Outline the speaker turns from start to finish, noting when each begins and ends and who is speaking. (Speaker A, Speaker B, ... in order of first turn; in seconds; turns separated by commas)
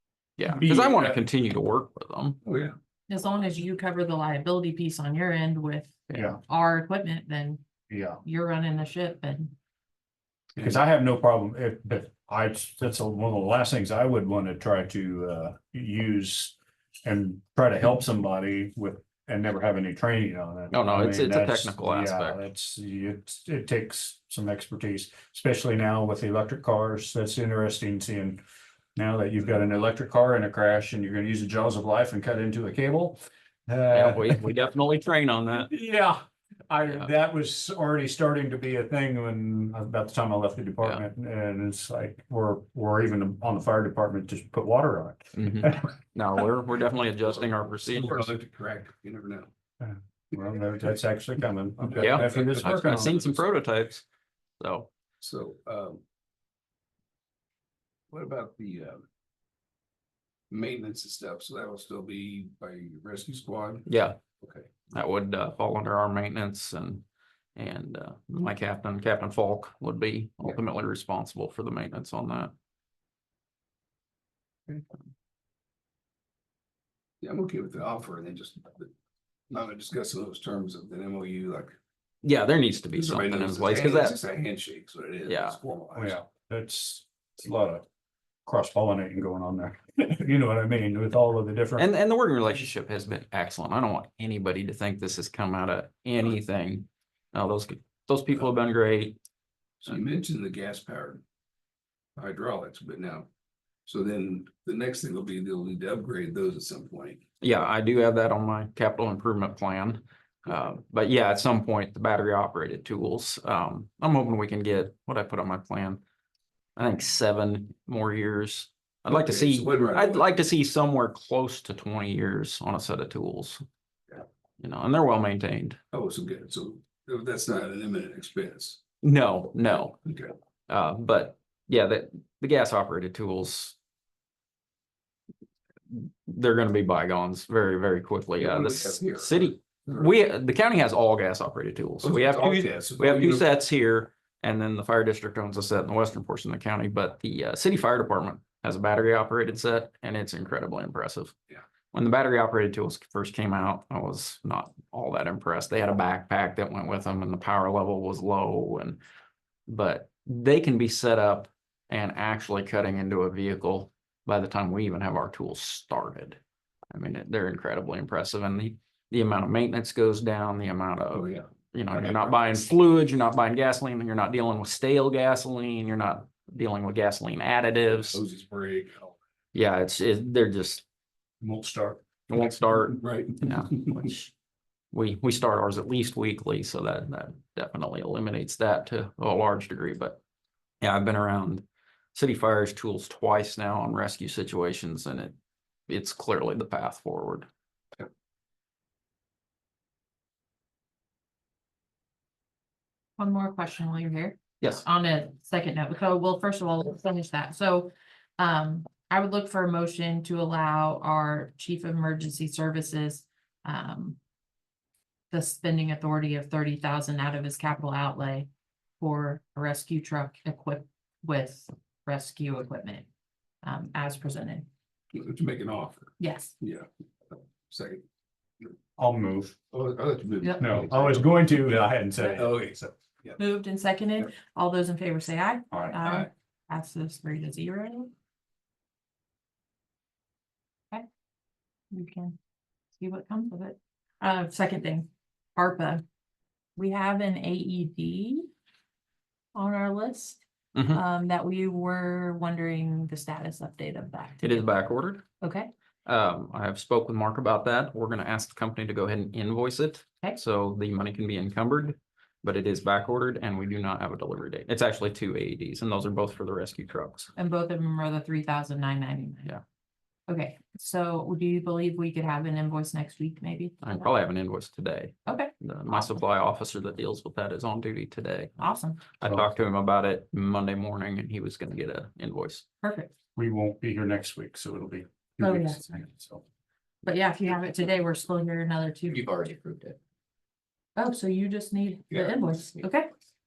Speaker A: 0.4-2.4, Speaker B: 0.5-1.2, Speaker C: 2.5-2.8, Speaker D: 3.1-7.6, Speaker B: 7.9-8.2, Speaker D: 8.2-9.6, Speaker B: 10.6-28.4, Speaker A: 20.7-22.4, Speaker B: 29.0-34.5, Speaker A: 33.9-35.7, Speaker B: 35.5-45.9, Speaker A: 45.4-48.3, Speaker C: 47.5-49.5, Speaker B: 49.8-53.4, Speaker A: 52.0-54.0, Speaker A: 54.6-54.9, Speaker C: 55.2-56.0, Speaker C: 58.1-59.0, Speaker C: 60.5-63.9, Speaker A: 63.9-64.2, Speaker C: 64.4-64.9, Speaker A: 64.9-67.0, Speaker A: 67.6-72.5, Speaker C: 77.2-78.9, Speaker C: 79.5-81.8, Speaker A: 82.2-84.2, Speaker C: 83.0-86.2, Speaker A: 85.3-85.6, Speaker B: 86.0-87.8, Speaker B: 88.5-91.9, Speaker A: 91.8-99.2, Speaker C: 99.8-101.2, Speaker C: 102.2-103.3, Speaker C: 103.9-107.2, Speaker A: 107.4-116.0, Speaker A: 116.8-123.6, Speaker C: 119.1-120.4, Speaker A: 124.6-125.8, Speaker C: 125.9-128.8, Speaker A: 129.0-130.0, Speaker C: 130.0-130.3, Speaker A: 130.7-133.8, Speaker A: 135.9-151.3, Speaker C: 138.4-140.0, Speaker C: 142.0-143.5, Speaker A: 151.9-159.0, Speaker A: 159.7-166.4, Speaker A: 166.9-178.2, Speaker C: 171.1-172.4, Speaker C: 178.0-179.2, Speaker A: 179.5-180.8, Speaker B: 181.4-182.0, Speaker A: 182.3-184.2, Speaker C: 182.9-184.1, Speaker A: 184.9-190.2, Speaker A: 190.8-191.6, Speaker A: 192.2-195.3, Speaker A: 195.9-197.5, Speaker D: 203.2-214.2, Speaker D: 215.3-223.1, Speaker D: 223.6-224.7, Speaker C: 225.1-228.0, Speaker D: 226.2-226.6, Speaker B: 229.0-229.6, Speaker C: 229.7-231.5, Speaker D: 230.4-230.7, Speaker B: 230.6-232.5, Speaker C: 232.3-233.4, Speaker D: 233.4-238.1, Speaker D: 241.9-242.4, Speaker D: 243.0-246.0, Speaker D: 246.8-248.5, Speaker D: 249.6-254.7, Speaker A: 250.8-251.0, Speaker A: 254.4-255.2, Speaker D: 255.4-255.7, Speaker A: 256.1-267.3, Speaker D: 267.4-269.6, Speaker D: 270.3-274.1, Speaker A: 273.8-278.6, Speaker D: 275.3-276.2, Speaker D: 278.6-279.1, Speaker A: 279.1-282.6, Speaker D: 282.8-283.1, Speaker B: 283.4-286.4, Speaker D: 285.4-285.8, Speaker D: 287.0-289.8, Speaker D: 290.9-293.1